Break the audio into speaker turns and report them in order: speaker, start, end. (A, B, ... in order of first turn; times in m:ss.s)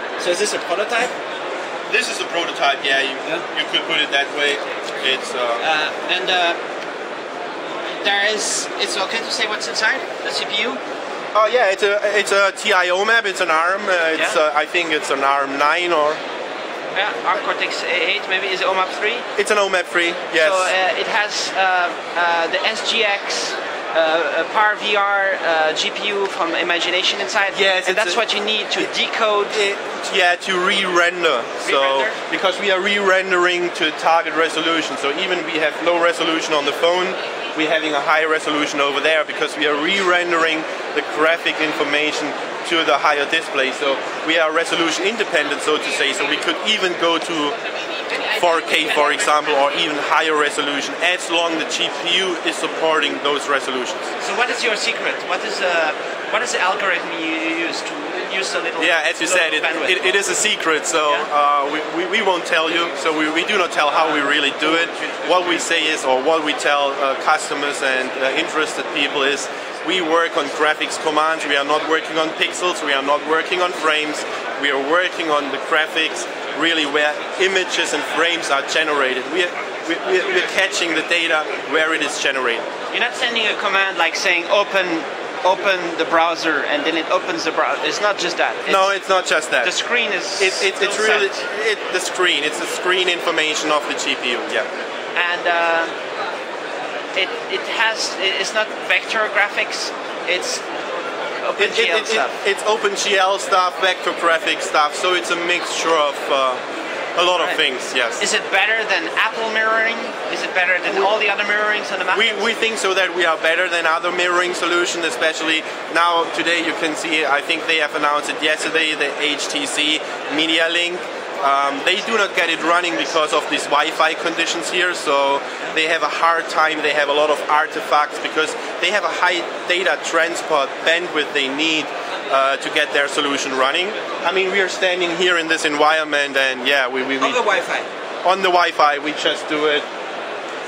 0:00.2-0:01.1 A
0:01.9-0:05.6 B
0:05.6-0:06.6 A
0:08.0-0:10.8 A
0:11.3-0:16.2 B
0:16.9-0:19.3 A
0:19.4-0:20.7 B
0:20.4-0:29.6 A
0:27.5-0:28.2 B
0:29.5-0:47.6 B
0:31.6-0:32.2 A
0:48.1-0:49.4 A
0:48.4-0:54.1 B
0:54.2-1:00.1 A
0:58.8-1:22.7 B
1:04.8-1:05.3 A
1:22.9-1:28.9 A
1:28.7-1:29.7 B
1:29.6-1:31.4 A
1:30.4-1:34.7 B
1:35.2-1:36.0 A
1:37.2-1:40.6 A
1:41.4-1:42.4 A
1:41.6-1:46.6 B
1:47.2-1:48.2 B
1:48.2-1:52.4 A
1:52.1-2:17.4 B
2:17.2-2:17.9 A
2:18.2-2:19.8 B